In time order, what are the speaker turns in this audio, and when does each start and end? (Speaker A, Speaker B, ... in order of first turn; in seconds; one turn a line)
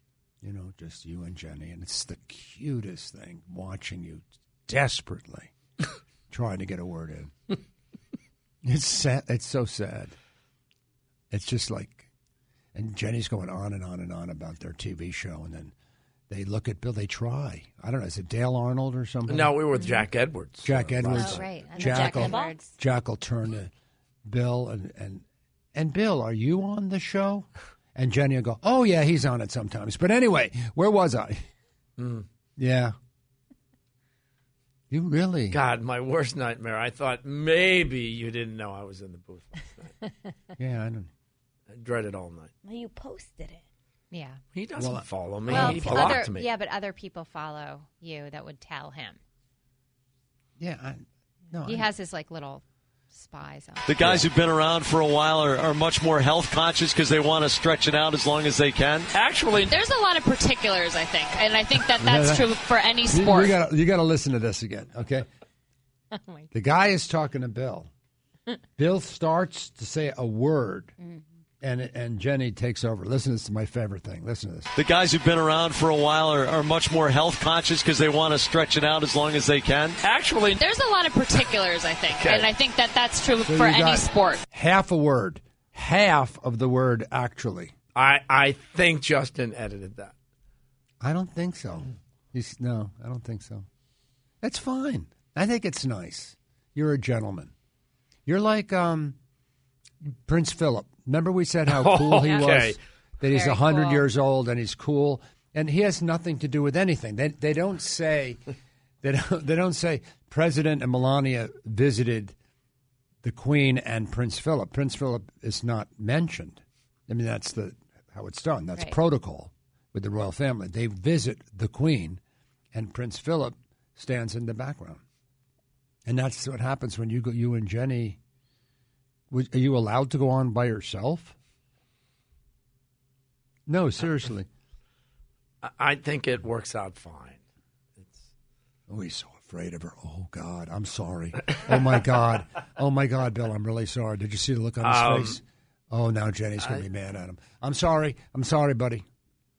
Speaker A: 0.4-5.5
Speaker A: 6.3-7.5
Speaker A: 8.6-10.1
Speaker A: 11.3-12.1
Speaker A: 12.7-15.7
Speaker A: 16.3-19.6
Speaker B: 19.3-21.5
Speaker C: 19.8-20.0
Speaker A: 20.6-23.7
Speaker C: 21.1-22.7
Speaker D: 21.8-22.7
Speaker A: 24.2-31.4
Speaker B: 32.0-32.2
Speaker A: 32.6-32.9
Speaker A: 34.9-35.6
Speaker B: 35.5-39.9
Speaker A: 40.6-41.1
Speaker B: 41.7-42.5
Speaker D: 42.6-43.6
Speaker C: 44.1-44.4
Speaker B: 44.5-46.5
Speaker A: 44.8-46.2
Speaker C: 45.5-49.2
Speaker A: 50.6-51.9
Speaker C: 51.6-53.9
Speaker E: 53.9-59.1
Speaker A: 54.0-54.3
Speaker B: 59.1-59.7
Speaker F: 59.6-63.5
Speaker A: 61.9-62.5
Speaker A: 63.1-65.2
Speaker C: 66.1-66.5
Speaker A: 66.5-67.9
Speaker A: 68.8-71.0
Speaker A: 71.6-74.7
Speaker E: 74.7-80.0
Speaker B: 80.0-80.6
Speaker F: 80.5-84.4
Speaker B: 82.1-82.5
Speaker A: 83.4-87.7
Speaker B: 87.9-90.1
Speaker A: 91.0-93.7
Speaker A: 94.4-97.5
Speaker A: 98.2-99.2
Speaker A: 100.2-108.4
Speaker B: 101.7-102.8
Speaker C: 103.2-104.0
Speaker A: 109.0-112.3
Speaker A: 113.2-122.2
Speaker A: 122.7-125.0
Speaker A: 126.0-128.2
Speaker A: 129.3-131.3
Speaker A: 133.7-134.5
Speaker B: 135.6-137.4
Speaker A: 138.9-149.0
Speaker B: 144.8-145.4